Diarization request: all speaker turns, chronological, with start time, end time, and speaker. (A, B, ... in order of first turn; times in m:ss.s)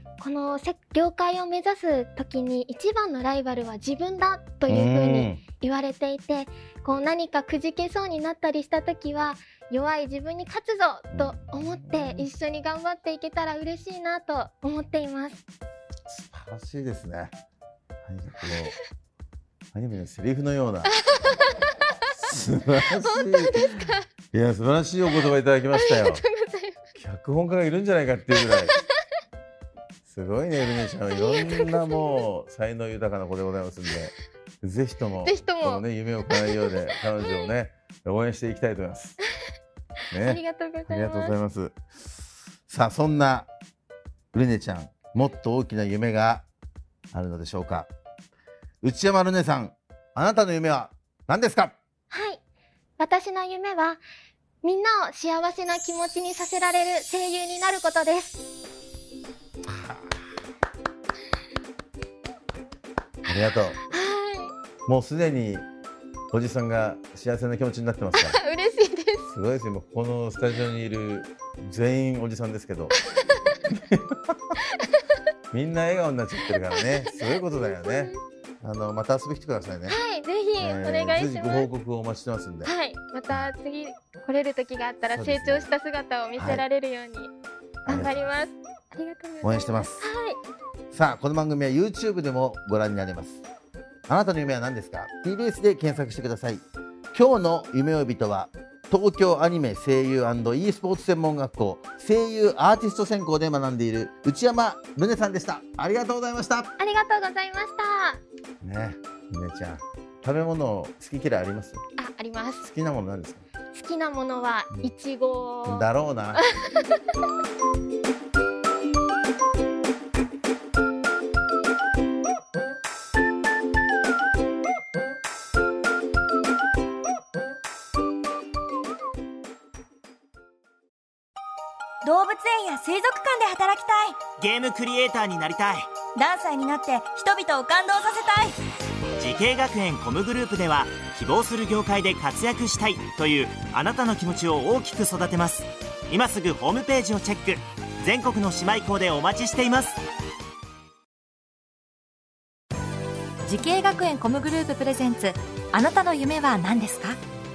0:00.2-0:15.4 A
0:04.7-0:05.4 B
0:11.1-0:12.3 B
0:16.1-0:17.3 B
0:18.0-0:18.8 B
0:18.4-0:18.8 A
0:19.7-0:20.9 B
0:20.9-0:21.6 A
0:22.2-0:26.2 B
0:23.0-0:24.0 A
0:25.7-0:26.8 A
0:26.9-0:28.8 B
0:28.3-0:28.9 A
0:30.0-0:39.2 B
0:31.1-0:32.2 A
0:35.2-0:37.5 A
0:40.1-0:42.1 B
0:40.1-0:41.4 A
0:42.7-0:43.5 B
0:44.3-0:46.4 B
0:47.1-0:47.9 B
0:48.8-0:51.8 B
0:52.1-0:52.4 A
0:53.0-0:54.0 A
0:54.6-0:58.4 A
0:59.7-1:00.2 B
1:03.3-1:03.8 B
1:03.8-1:04.5 A
1:04.8-1:05.7 B
1:06.3-1:08.4 B
1:08.1-1:09.3 A
1:09.2-1:12.9 B
1:13.1-1:13.6 A
1:13.6-1:14.5 B
1:14.7-1:15.2 A
1:15.5-1:20.0 B
1:16.4-1:18.2 A
1:19.9-1:21.7 A
1:20.6-1:22.7 B
1:22.6-1:27.3 A
1:25.1-1:25.7 B
1:26.4-1:26.6 B
1:27.8-1:30.4 A
1:27.9-1:28.3 B
1:29.4-1:30.1 B
1:30.9-1:33.4 B
1:34.1-1:46.7 B
1:46.8-1:48.2 A
1:48.6-1:51.8 B
1:52.0-1:52.7 A
1:52.6-1:53.4 B
1:53.7-1:57.0 A
1:55.6-1:56.4 B
2:12.0-2:14.2 C
2:14.4-2:15.9 D
2:16.2-2:18.6 C
2:19.2-2:30.0 D
2:33.4-2:37.2 E